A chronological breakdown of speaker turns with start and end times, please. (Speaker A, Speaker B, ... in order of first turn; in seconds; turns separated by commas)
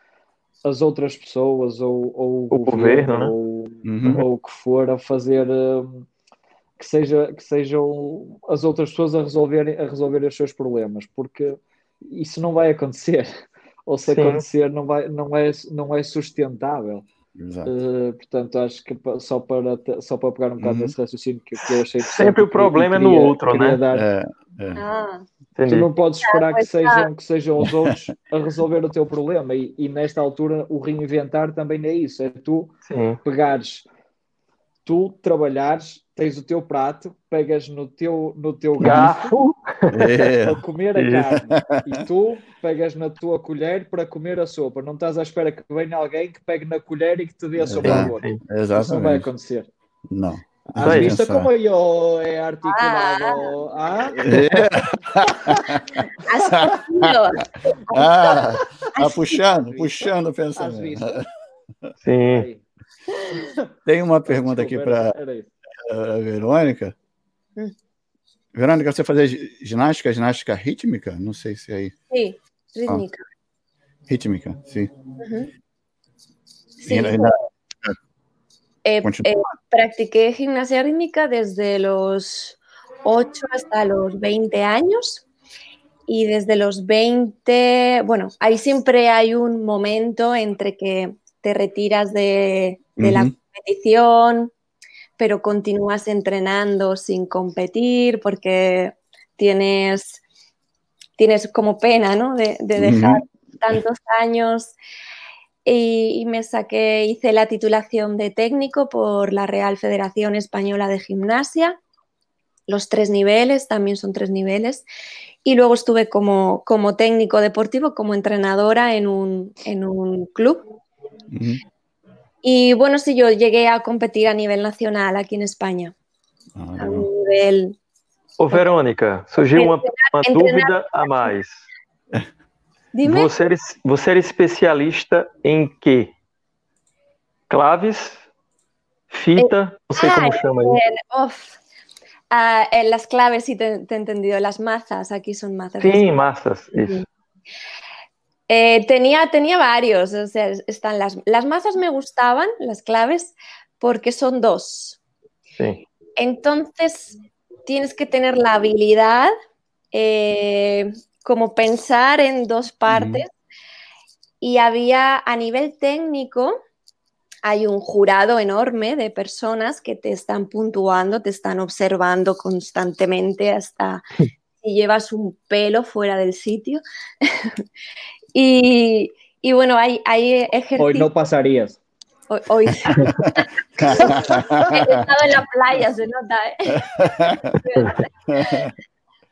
Speaker A: 0.6-6.1, Speaker B: 2.5-3.3, Speaker C: 3.9-4.2, Speaker A: 6.8-13.3, Speaker A: 13.9-17.1, Speaker B: 14.1-14.4, Speaker C: 17.4-17.7, Speaker A: 17.7-24.1, Speaker C: 20.6-20.9, Speaker B: 22.0-23.8, Speaker C: 23.9-24.8, Speaker D: 24.8-25.2, Speaker B: 25.6-25.9, Speaker A: 25.7-33.9, Speaker D: 26.2-27.1, Speaker B: 32.9-33.2, Speaker A: 34.9-39.4, Speaker B: 38.8-40.3, Speaker C: 39.9-40.6, Speaker A: 40.1-49.7, Speaker B: 41.0-41.3, Speaker C: 41.4-41.9, Speaker C: 47.6-49.3, Speaker B: 47.8-48.4, Speaker C: 50.1-51.5, Speaker A: 50.8-55.9, Speaker B: 50.8-51.1, Speaker D: 52.6-53.5, Speaker C: 54.2-57.2, Speaker D: 56.2-58.4, Speaker C: 57.9-61.2, Speaker D: 59.0-59.2, Speaker A: 59.7-61.2, Speaker B: 62.0-62.5, Speaker A: 62.3-62.6, Speaker A: 63.2-63.7, Speaker C: 63.9-65.1, Speaker A: 64.3-65.5, Speaker C: 65.9-66.9, Speaker C: 68.5-71.9, Speaker D: 72.1-73.2, Speaker C: 74.1-74.9, Speaker D: 75.2-75.5, Speaker D: 76.8-77.3, Speaker C: 76.9-78.0, Speaker D: 78.8-85.2, Speaker C: 79.0-79.3, Speaker D: 86.1-94.5, Speaker C: 93.0-93.3, Speaker D: 95.2-100.2, Speaker D: 101.2-104.8, Speaker C: 102.8-103.2, Speaker D: 105.7-111.8, Speaker D: 112.7-114.8, Speaker D: 115.5-120.6, Speaker C: 121.3-121.6, Speaker D: 122.4-125.9, Speaker C: 126.5-127.1, Speaker D: 126.8-127.8, Speaker B: 128.4-131.7, Speaker D: 129.4-131.3, Speaker D: 132.9-133.3, Speaker B: 133.0-136.1, Speaker B: 137.5-138.2, Speaker B: 139.1-140.8, Speaker D: 139.4-141.6, Speaker D: 142.3-146.1, Speaker B: 145.8-147.0, Speaker D: 148.5-155.0, Speaker B: 155.6-155.8, Speaker D: 156.2-159.3, Speaker D: 159.9-163.3, Speaker C: 162.9-163.2, Speaker D: 164.4-166.6, Speaker D: 167.4-174.0, Speaker D: 174.6-177.6, Speaker D: 178.3-181.1, Speaker A: 180.8-181.8, Speaker D: 182.3-186.8, Speaker C: 183.1-185.1, Speaker C: 186.8-187.6, Speaker D: 187.4-188.7, Speaker C: 188.3-188.7